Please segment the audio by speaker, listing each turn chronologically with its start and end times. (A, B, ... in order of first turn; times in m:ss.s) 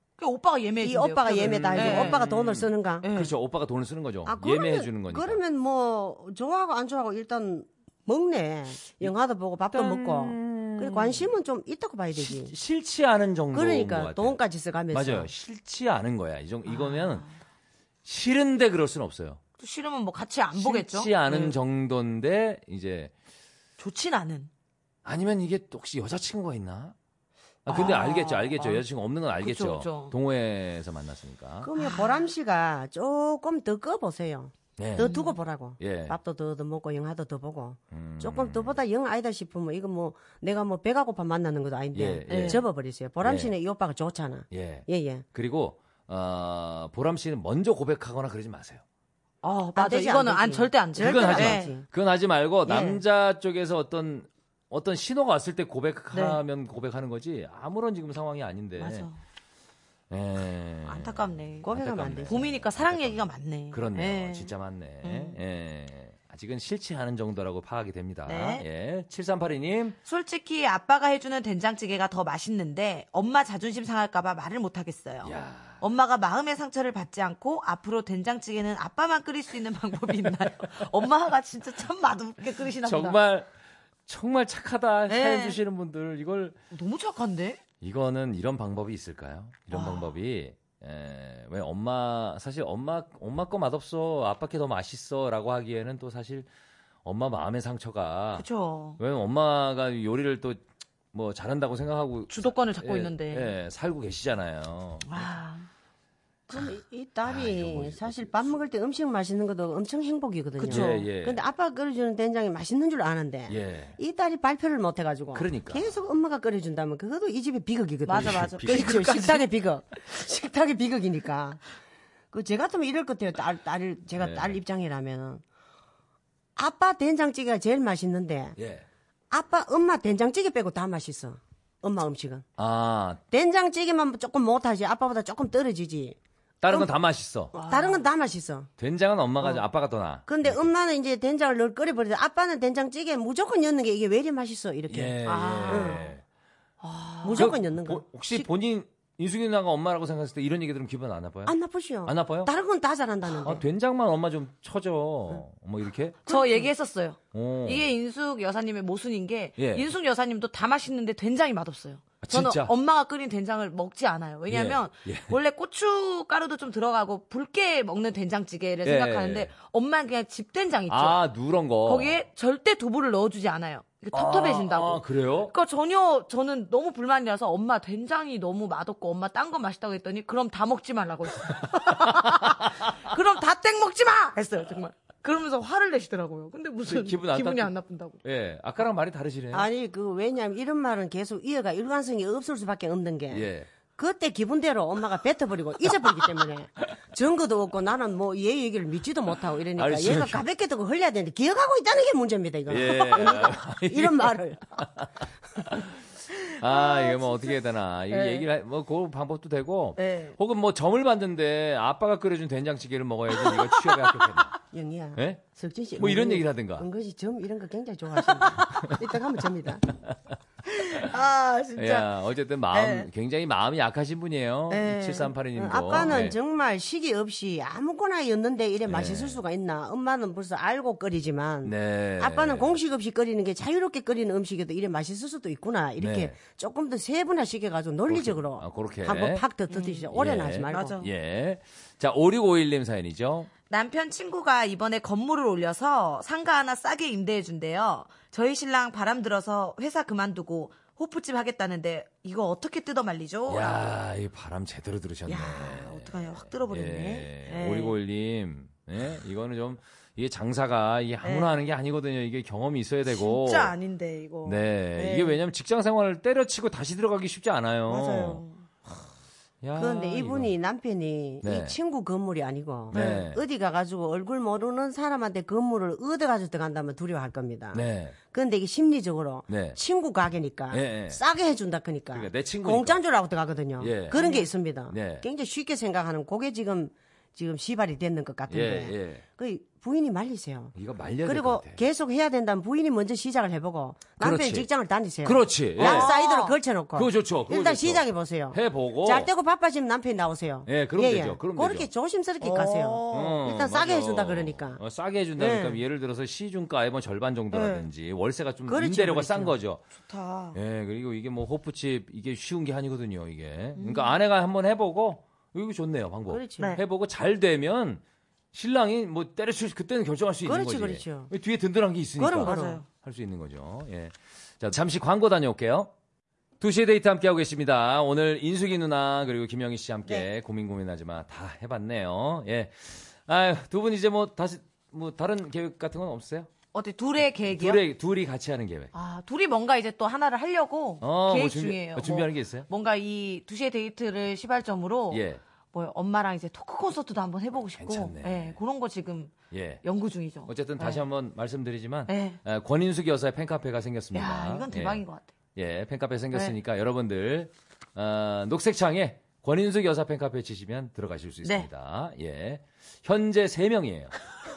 0:00.2-0:02.2 A
0:00.8-0:03.1 B
0:01.7-0:05.4 C
0:03.0-0:03.3 A
0:04.2-0:12.5 B
0:09.7-0:11.3 C
0:12.2-0:14.4 C
0:13.5-0:15.3 B
0:14.9-0:17.2 C
0:16.7-0:17.3 A
0:18.0-0:19.4 C
0:19.6-0:21.6 A
0:20.5-0:23.1 C
0:23.8-0:24.5 A
0:25.0-0:26.9 C
0:27.6-0:31.7 C
0:27.7-0:28.8 A
0:29.4-0:30.1 A
0:31.6-0:45.2 B
0:31.8-0:32.1 A
0:34.8-0:35.1 C
0:35.0-0:35.3 A
0:35.8-0:36.2 C
0:37.9-0:38.8 C
0:41.9-0:42.6 C
0:42.3-0:42.6 A
0:43.2-0:43.5 C
0:44.5-0:48.8 C
0:49.4-0:51.7 A
0:49.8-0:51.9 B
0:51.0-0:59.1 C
0:52.7-0:53.0 B
0:56.1-0:56.4 A
0:58.8-0:59.2 A
1:00.1-1:10.0 C
1:00.8-1:01.7 A
1:01.6-1:02.5 B
1:02.3-1:04.5 A
1:05.0-1:05.4 A
1:08.2-1:08.6 A
1:10.0-1:23.2 A
1:15.2-1:15.8 C
1:22.8-1:23.5 C
1:24.0-1:26.6 C
1:25.1-1:25.6 A
1:26.7-1:27.6 A
1:27.8-1:36.5 C
1:29.7-1:30.1 A
1:37.0-1:38.4 C
1:38.4-1:39.0 A
1:39.0-1:45.3 C
1:42.3-1:43.5 A
1:45.1-1:45.7 A
1:46.5-2:01.6 B
1:47.2-1:48.6 C
1:50.6-1:51.1 A
1:50.7-1:51.4 C
1:53.5-1:54.0 C
1:55.3-1:55.9 C
1:58.0-1:59.4 A
1:58.2-1:59.1 C
2:02.3-2:05.4 B
2:04.2-2:04.6 C
2:06.6-2:08.6 B
2:08.6-2:08.8 C
2:09.3-2:12.4 B
2:12.6-2:13.2 C
2:13.3-2:16.2 B
2:16.6-2:17.5 C
2:17.5-2:18.0 A
2:17.6-2:18.7 B
2:18.8-2:20.7 C
2:20.3-2:26.1 B
2:24.9-2:26.2 C
2:25.2-2:26.1 A
2:26.8-2:27.5 A
2:27.2-2:28.5 B
2:27.4-2:31.5 C
2:31.4-2:33.6 B
2:32.0-2:32.5 C
2:33.2-2:36.3 C
2:36.2-2:51.2 A
2:37.3-2:37.9 C
2:39.6-2:39.9 C
2:42.2-2:42.7 C
2:44.5-2:45.4 C
2:48.8-2:49.5 C
2:50.9-2:52.2 C
2:51.8-3:08.2 A
2:54.1-2:55.5 C
3:01.8-3:02.7 C
3:06.8-3:07.7 C
3:08.2-3:09.7 C
3:09.5-3:24.8 B
3:13.3-3:13.7 C
3:19.8-3:20.4 C
3:22.7-3:25.1 C
3:25.6-3:25.9 C
3:26.4-3:27.5 A
3:26.6-3:34.5 C
3:28.1-3:28.5 A
3:30.0-3:30.4 A
3:33.3-3:34.2 A
3:34.7-3:39.9 B
3:35.2-3:36.9 C
3:38.3-3:38.6 A
3:40.6-3:42.1 A
3:41.8-3:46.4 C
3:42.7-3:43.1 A
3:44.7-3:45.3 A
3:45.5-4:01.0 B
3:45.9-3:46.2 A
3:48.9-3:49.4 C
3:51.6-3:52.8 C
3:56.0-3:56.4 C
3:58.1-3:59.4 C
3:59.7-4:00.0 A
4:00.1-4:03.5 C
4:00.7-4:01.1 A
4:03.7-4:13.8 A
4:13.5-4:23.7 C
4:15.3-4:18.0 A
4:21.2-4:21.5 A
4:23.1-4:25.4 A
4:24.4-4:29.0 C
4:27.9-4:28.6 A
4:29.6-4:30.5 C
4:29.8-5:04.8 B
4:31.4-4:31.8 C
4:32.9-4:33.4 C
4:32.9-4:33.2 A
4:37.7-4:38.2 C
4:39.5-4:39.8 C
4:40.7-4:41.2 C
4:42.1-4:43.0 C
4:43.8-4:44.2 C
4:44.1-4:44.5 A
4:44.9-4:45.2 C
4:48.5-4:49.2 C
4:50.8-4:51.8 C
4:54.2-4:54.7 C
4:55.2-4:56.1 C
4:55.8-4:56.6 A
4:56.9-4:59.3 C
5:00.7-5:01.9 C
5:02.4-5:03.4 A
5:03.1-5:09.8 C
5:05.4-5:05.8 B
5:07.5-5:07.9 A
5:08.7-5:09.6 B
5:10.0-5:10.6 A
5:10.5-5:18.0 C
5:13.8-5:14.1 A
5:16.3-5:16.8 B
5:18.5-5:25.9 C
5:20.4-5:21.3 B
5:22.2-5:22.8 B
5:22.4-5:22.8 A
5:26.6-5:36.5 C
5:36.7-5:37.8 A
5:37.5-5:38.9 C
5:38.9-5:51.0 A
5:41.0-5:42.7 C
5:45.1-5:45.4 C
5:47.8-5:48.6 C
5:49.5-5:49.8 C
5:50.4-5:55.0 C
5:52.1-5:52.4 A
5:54.1-5:55.3 A
5:55.6-6:04.1 C